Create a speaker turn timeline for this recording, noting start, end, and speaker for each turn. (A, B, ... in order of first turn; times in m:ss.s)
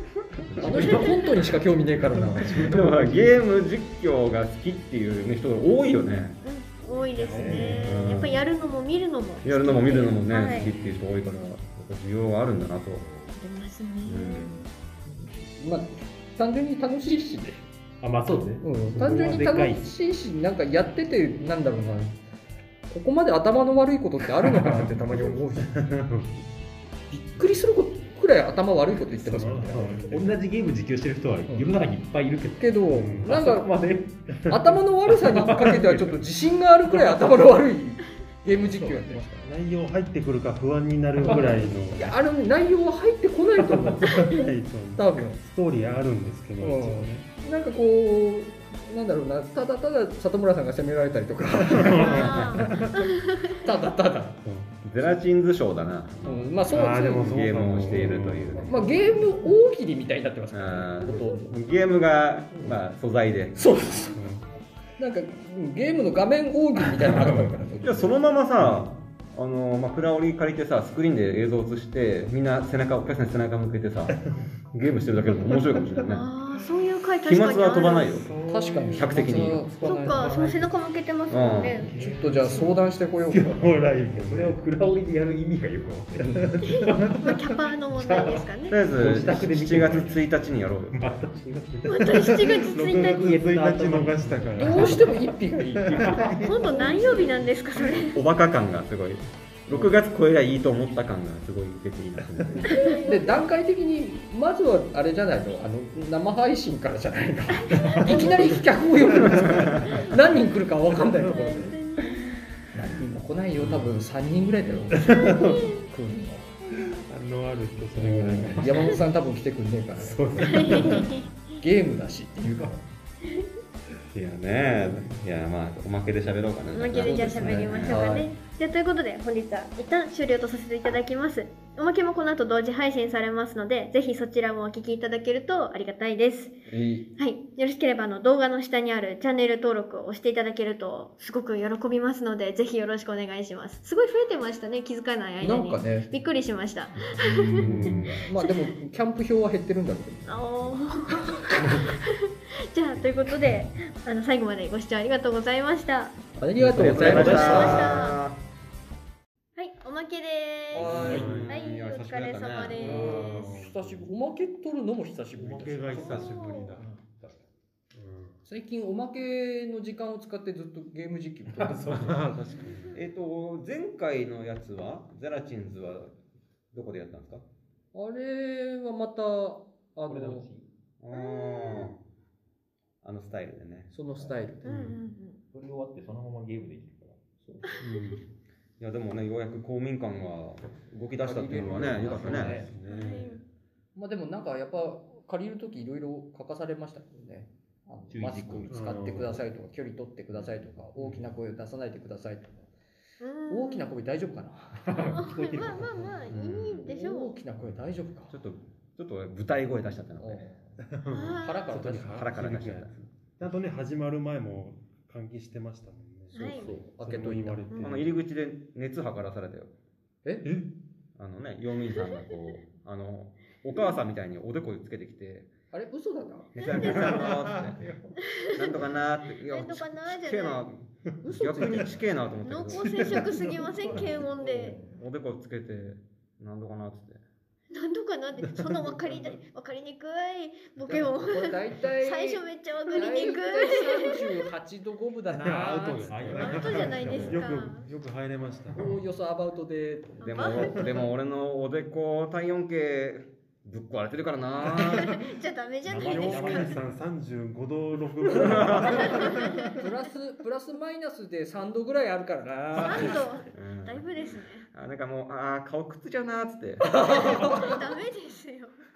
0:00.5-0:01.5 A
0:00.6-0:00.8 B
0:00.6-0:03.2 C
0:01.0-0:01.3 D
0:02.3-0:02.9 E
0:02.6-0:06.4 B
0:06.4-0:10.7 D
0:07.2-0:08.0 A
0:07.2-0:08.0 E
0:07.8-0:08.4 B
0:09.4-0:13.1 B
0:13.0-0:13.4 A
0:13.4-0:14.7 D
0:14.0-0:14.6 B
0:15.0-0:17.6 C
0:18.0-0:19.9 A
0:18.6-0:22.2 C
0:22.9-0:25.7 C
0:24.6-0:26.3 E
0:27.1-0:30.1 C
0:29.1-0:30.2 E
0:29.8-0:34.5 A
0:32.6-0:33.7 C
0:32.9-0:33.3 E
0:34.5-0:39.5 C
0:35.1-0:36.2 A
0:36.9-0:37.2 A
0:38.5-0:39.2 A
0:39.4-0:42.2 E
0:41.2-0:41.7 A
0:41.9-0:45.4 C
0:44.0-0:47.3 E
0:46.6-0:52.7 C
0:51.7-0:53.0 E
0:52.0-0:53.7 D
0:53.6-0:54.4 C
0:54.4-0:54.9 E
0:54.8-0:56.3 B
0:56.2-0:57.3 C
0:56.2-0:59.3 E
0:57.2-0:58.8 B
0:58.6-1:01.6 C
1:00.5-1:03.6 B
1:03.6-1:04.2 C
1:04.1-1:04.4 E
1:05.0-1:08.1 C
1:07.8-1:14.2 B
1:14.7-1:16.3 B
1:16.0-1:18.2 D
1:17.2-1:18.4 B
1:18.1-1:19.4 E
1:18.5-1:20.4 C
1:19.0-1:19.7 B
1:19.8-1:21.9 D
1:19.9-1:20.7 A
1:21.3-1:21.8 B
1:21.8-1:27.4 A
1:22.0-1:23.6 C
1:23.5-1:24.6 E
1:26.3-1:27.3 E
1:26.6-1:28.8 D
1:27.9-1:30.3 A
1:28.7-1:31.1 B
1:30.9-1:37.1 A
1:31.8-1:33.3 D
1:32.0-1:35.2 E
1:34.6-1:37.3 C
1:35.8-1:37.2 E
1:36.4-1:38.2 D
1:37.9-1:43.0 B
1:39.7-1:40.0 C
1:42.7-1:43.2 D
1:42.8-1:51.8 C
1:47.6-1:48.6 D
1:49.3-1:49.8 B
1:49.4-1:49.7 E
1:49.8-1:50.2 D
1:51.2-1:52.4 D
1:52.7-1:56.5 C
1:53.6-1:53.9 A
1:55.0-1:55.7 E
1:55.3-1:55.8 D
1:57.0-1:58.9 E
1:58.0-1:58.7 A
1:58.0-2:02.8 C
2:00.0-2:01.0 A
2:00.4-2:01.3 D
2:00.6-2:01.0 E
2:04.1-2:08.1 B
2:06.7-2:16.6 D
2:07.0-2:08.3 C
2:07.4-2:07.9 A
2:16.7-2:17.1 C
2:17.2-2:28.7 D
2:25.4-2:26.1 C
2:27.4-2:31.9 C
2:27.6-2:28.2 A
2:27.7-2:28.2 E
2:30.3-2:36.2 D
2:36.4-2:38.1 C
2:36.6-2:37.9 A
2:36.6-2:37.9 E
2:36.8-2:38.4 B
2:37.1-2:38.2 D
2:39.6-2:43.5 D
2:40.7-2:41.4 C
2:40.7-2:43.0 B
2:41.0-2:41.5 E
2:42.7-2:44.1 E
2:42.8-2:47.0 C
2:45.4-2:46.8 E
2:45.9-2:46.8 D
2:47.0-2:47.4 A
2:47.9-2:48.4 E
2:48.4-2:52.2 C
2:51.5-2:52.2 A
2:51.7-2:53.0 E
2:52.6-2:53.0 D
2:52.9-2:56.2 B
2:56.7-2:57.4 B
2:57.9-3:00.5 C
3:00.1-3:00.7 A
3:01.0-3:02.0 B
3:01.1-3:02.0 D
3:03.0-3:03.9 B
3:03.9-3:05.0 C
3:04.6-3:05.4 D
3:04.7-3:05.0 E
3:05.5-3:07.2 A
3:07.6-3:08.2 D
3:07.8-3:08.2 E
3:08.8-3:12.7 B
3:11.2-3:12.7 C
3:11.6-3:13.4 E
3:12.9-3:13.4 D
3:14.0-3:22.7 C
3:18.1-3:19.3 A
3:18.7-3:19.4 E
3:23.2-3:23.9 D
3:23.5-3:25.1 C
3:24.9-3:26.1 A
3:25.1-3:27.4 D
3:26.3-3:26.9 B
3:26.8-3:28.4 C
3:28.3-3:30.4 B
3:30.2-3:32.2 C
3:30.9-3:38.1 E
3:31.1-3:31.7 D
3:31.9-3:33.0 B
3:36.3-3:36.8 D
3:36.3-3:37.7 C
3:37.8-3:39.7 B
3:40.2-3:40.5 C
3:40.4-3:40.7 E
3:41.2-3:45.5 B
3:45.7-3:46.6 C
3:46.6-3:47.9 B
3:46.6-3:47.4 D
3:46.9-3:47.9 E
3:48.2-3:50.7 D
3:48.5-3:53.2 B
3:51.2-3:52.1 C
3:52.4-3:54.8 D
3:53.0-3:54.0 E
3:54.1-3:55.0 C
3:54.8-3:57.2 B
3:57.7-4:04.5 D
3:59.0-3:59.4 C
4:00.9-4:06.5 C
4:05.3-4:08.8 E
4:06.1-4:07.4 A
4:06.4-4:07.9 D
4:07.1-4:07.3 B
4:08.7-4:09.0 A
4:08.7-4:10.9 C
4:10.2-4:11.0 D
4:10.2-4:15.2 B
4:14.6-4:15.2 E
4:14.8-4:16.8 D
4:15.8-4:17.0 A
4:16.0-4:19.8 E
4:18.4-4:19.1 B
4:18.4-4:18.8 C
4:18.8-4:19.8 D
4:19.8-4:23.4 C
4:22.7-4:27.3 B
4:22.8-4:24.7 D
4:26.8-4:27.8 C
4:26.8-4:28.8 D